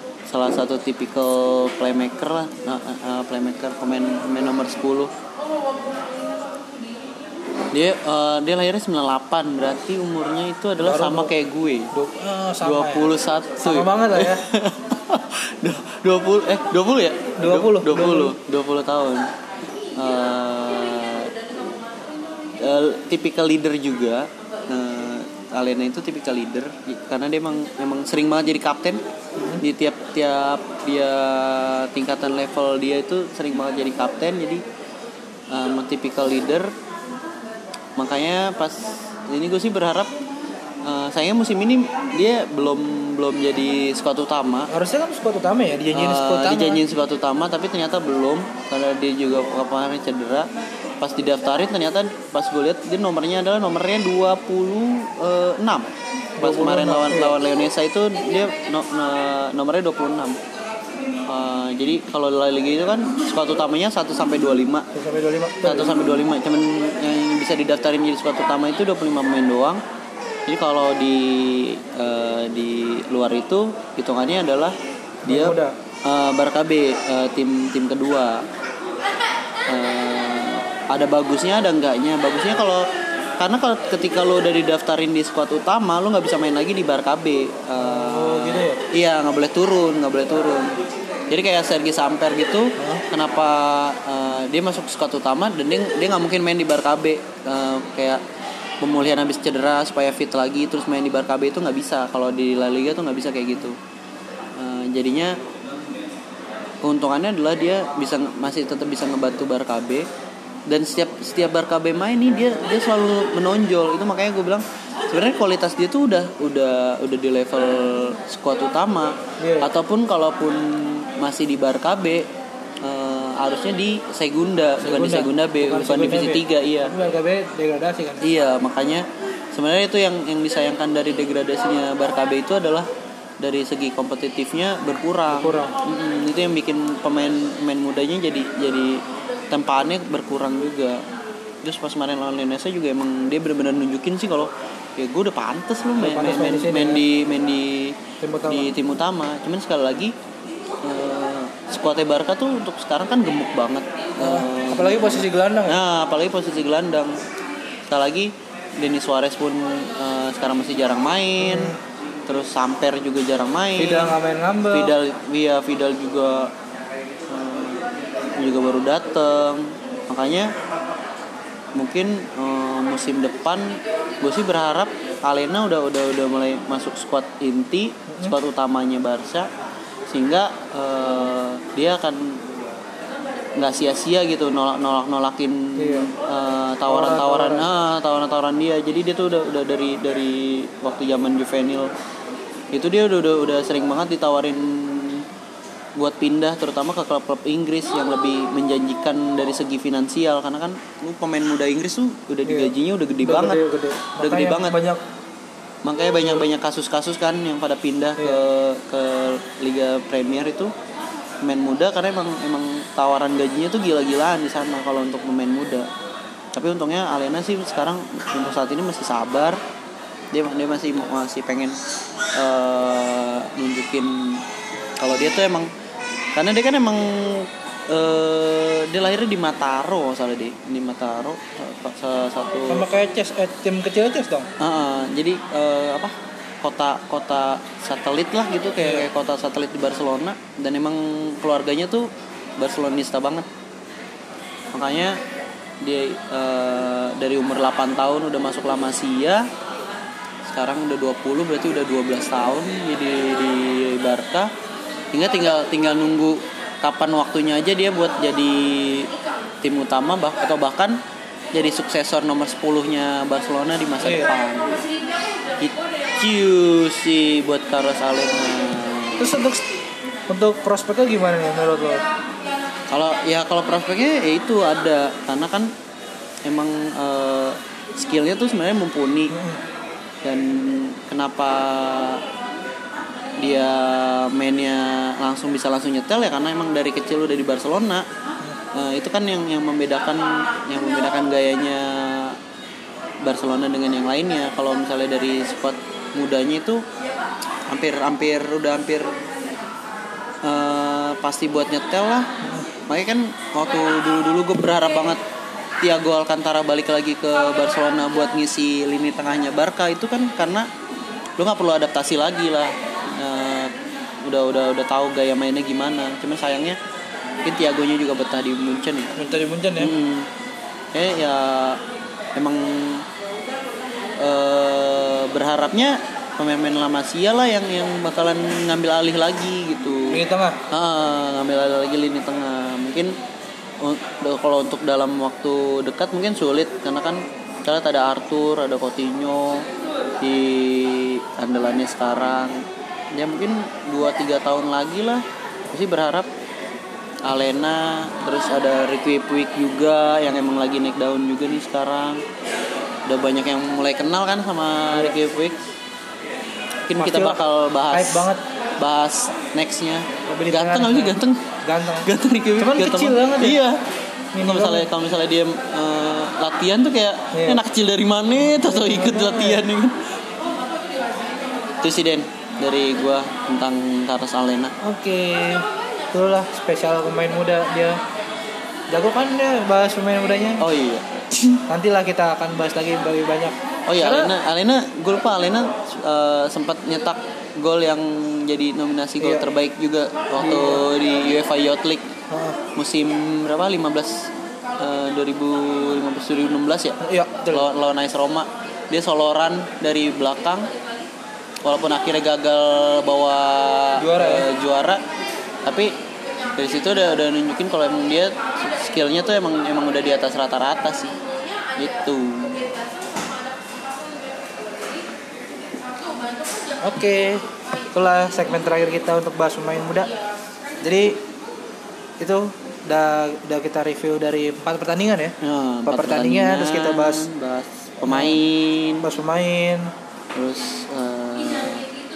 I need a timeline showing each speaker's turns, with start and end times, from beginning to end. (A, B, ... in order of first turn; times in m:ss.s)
0:00.3-0:05.1 A
0:07.7-0:11.9 A
0:10.8-0:11.3 B
0:11.9-0:14.4 B
0:12.6-0:19.3 A
0:17.4-0:18.4 B
0:20.0-0:21.3 A
0:22.6-0:29.0 A
0:29.4-0:29.6 B
0:29.6-0:34.6 A
0:35.5-0:36.7 A
0:38.0-0:40.1 A
0:40.8-0:44.7 A
0:44.7-0:46.8 B
0:45.9-0:50.5 A
0:51.0-0:55.9 A
0:56.4-0:57.4 B
0:56.4-1:00.4 A
1:01.3-1:04.9 A
1:04.9-1:06.1 B
1:05.6-1:09.8 A
1:10.5-1:18.5 A
1:15.3-1:15.7 B
1:19.7-1:22.9 A
1:23.4-1:30.8 A
1:27.8-1:28.8 B
1:31.3-1:38.2 A
1:32.8-1:33.0 B
1:38.8-1:43.8 A
1:44.6-1:45.4 A
1:46.8-1:50.1 A
1:50.7-2:02.3 A
1:59.4-1:59.7 B
2:02.8-2:06.9 A
2:04.8-2:08.2 B
2:08.2-2:12.9 A
2:13.4-2:21.0 A
2:15.3-2:15.8 B
2:21.6-2:30.2 A
2:26.0-2:27.0 B
2:28.2-2:28.7 B
2:30.8-2:37.2 A
2:34.2-2:35.8 B
2:37.9-2:41.7 A
2:41.4-2:41.8 B
2:42.3-2:44.2 A
2:43.8-2:44.9 B
2:44.7-2:46.5 A
2:47.3-2:47.8 A
2:48.4-2:50.5 A
2:51.8-2:59.5 A
2:58.1-2:58.4 B
3:00.1-3:02.4 A
3:03.6-3:11.9 A
3:05.8-3:06.1 B
3:06.9-3:07.7 B
3:12.7-3:15.3 A
3:16.0-3:23.6 A
3:22.4-3:25.0 B
3:24.2-3:24.8 A
3:25.8-3:30.7 A
3:31.4-3:35.9 A
3:36.5-3:39.6 A
3:40.3-3:41.8 A
3:42.3-3:44.5 A
3:45.0-3:45.7 A
3:46.4-3:52.8 A
3:52.7-3:54.5 B
3:54.6-4:03.5 A
3:58.8-3:59.1 B
4:04.7-4:05.2 A
4:05.8-4:09.5 A
4:10.4-4:14.5 A
4:15.1-4:19.1 A
4:19.6-4:21.0 A
4:21.5-4:24.8 A
4:24.0-4:24.3 B
4:25.6-4:29.3 A
4:29.2-4:29.6 B
4:30.3-4:32.0 B
4:32.9-4:35.7 A
4:36.4-4:39.4 A
4:39.3-4:39.6 B
4:40.2-4:42.2 A
4:43.4-4:48.1 A
4:48.7-4:52.4 A
4:53.2-4:56.8 A
4:57.7-4:59.2 A
5:00.4-5:02.3 A
5:02.9-5:05.2 A
5:05.8-5:10.7 A
5:11.4-5:16.8 A
5:17.4-5:19.2 A
5:19.2-5:20.0 B
5:19.8-5:20.3 A
5:20.9-5:21.8 A
5:22.4-5:23.1 A
5:24.2-5:33.2 A
5:30.1-5:30.6 B
5:33.8-5:39.7 A
5:40.2-5:46.3 A
5:47.2-5:52.2 A
5:53.1-5:55.6 A
5:56.9-6:03.8 A
5:57.0-5:57.4 B
5:57.9-5:58.4 B
6:00.3-6:03.6 B
6:04.3-6:04.9 B
6:04.4-6:10.0 A
6:07.3-6:07.6 B
6:08.4-6:09.6 B
6:11.8-6:14.7 A
6:14.8-6:18.0 B
6:18.9-6:20.6 B
6:20.6-6:21.6 A
6:21.7-6:24.3 B
6:23.9-6:32.1 A
6:29.2-6:29.5 B
6:30.4-6:30.8 B
6:32.3-6:32.6 B
6:32.8-6:37.0 A
6:37.0-6:37.7 B
6:37.5-6:40.7 A
6:41.6-6:45.0 A
6:44.0-6:44.5 B
6:45.6-6:46.0 A
6:46.6-6:51.2 A
6:51.8-6:52.7 A
6:56.8-7:00.1 B
7:00.8-7:01.2 B
7:02.2-7:07.3 B
7:05.4-7:09.1 A
7:08.0-7:08.4 B
7:09.0-7:09.9 B
7:10.4-7:11.9 A